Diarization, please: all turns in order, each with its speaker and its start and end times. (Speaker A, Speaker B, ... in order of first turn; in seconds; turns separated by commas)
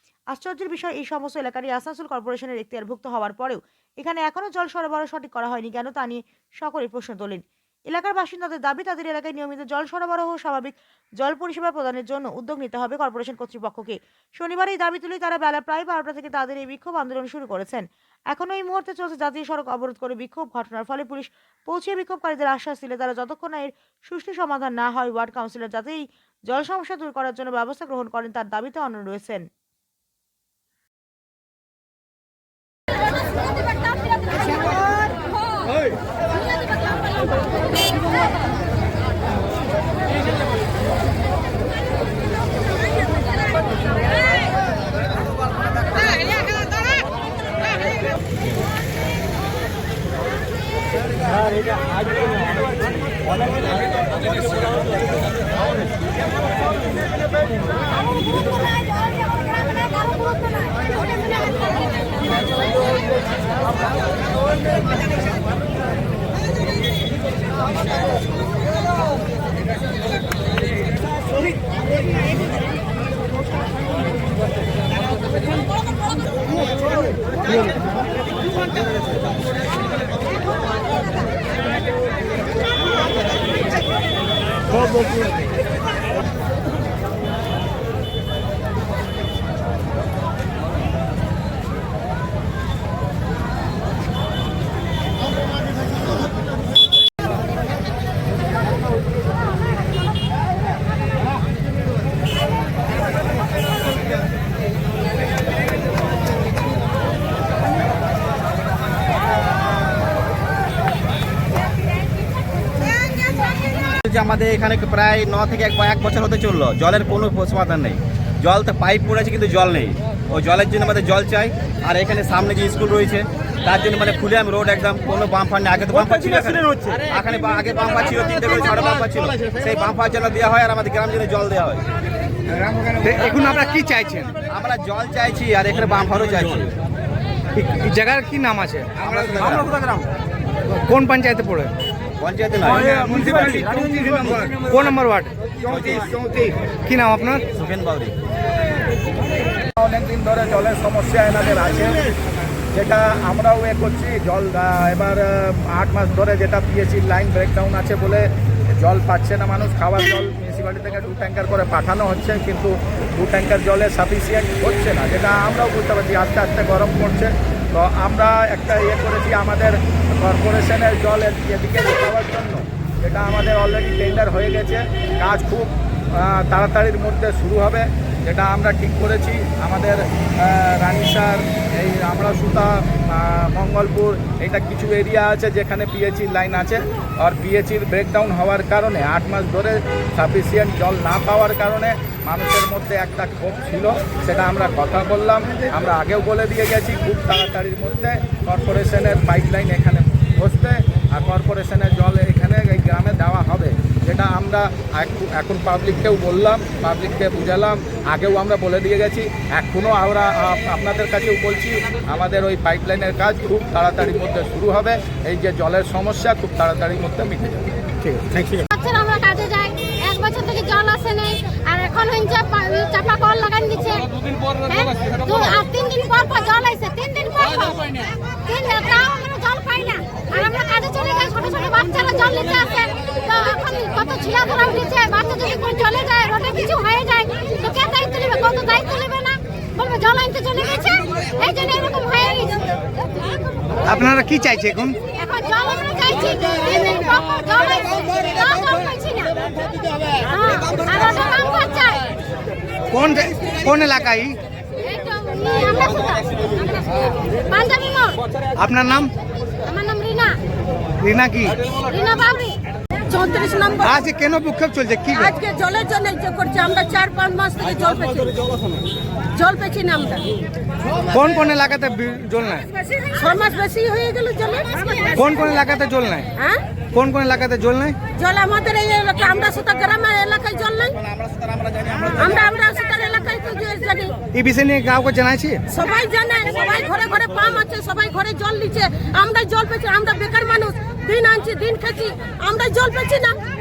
Speaker A: 0.3-29.4, Speaker B: 114.0-131.8, Speaker C: 132.7-134.3, Speaker B: 134.5-136.7, Speaker C: 137.5-138.9, Speaker B: 139.0-140.1, Speaker C: 140.8-141.7, Speaker B: 142.2-144.6, Speaker C: 142.7-143.6, Speaker C: 144.6-145.3, Speaker B: 145.6-146.5, Speaker C: 146.8-147.4, Speaker B: 147.5-148.1, Speaker D: 149.8-152.0, Speaker D: 152.7-217.7, Speaker E: 218.7-242.8, Speaker C: 243.8-245.0, Speaker E: 245.0-252.1, Speaker C: 252.9-254.4, Speaker E: 254.8-258.2, Speaker C: 258.6-259.1, Speaker E: 259.6-260.4, Speaker C: 261.0-261.6, Speaker E: 261.7-262.6, Speaker F: 263.1-264.0, Speaker C: 263.8-265.3, Speaker F: 265.1-268.6, Speaker F: 269.4-270.3, Speaker C: 271.1-272.6, Speaker F: 273.1-275.2, Speaker C: 275.1-276.3, Speaker C: 276.9-278.0, Speaker F: 278.2-281.0, Speaker B: 281.0-282.4, Speaker F: 282.1-284.1, Speaker C: 284.3-285.6, Speaker F: 285.7-293.4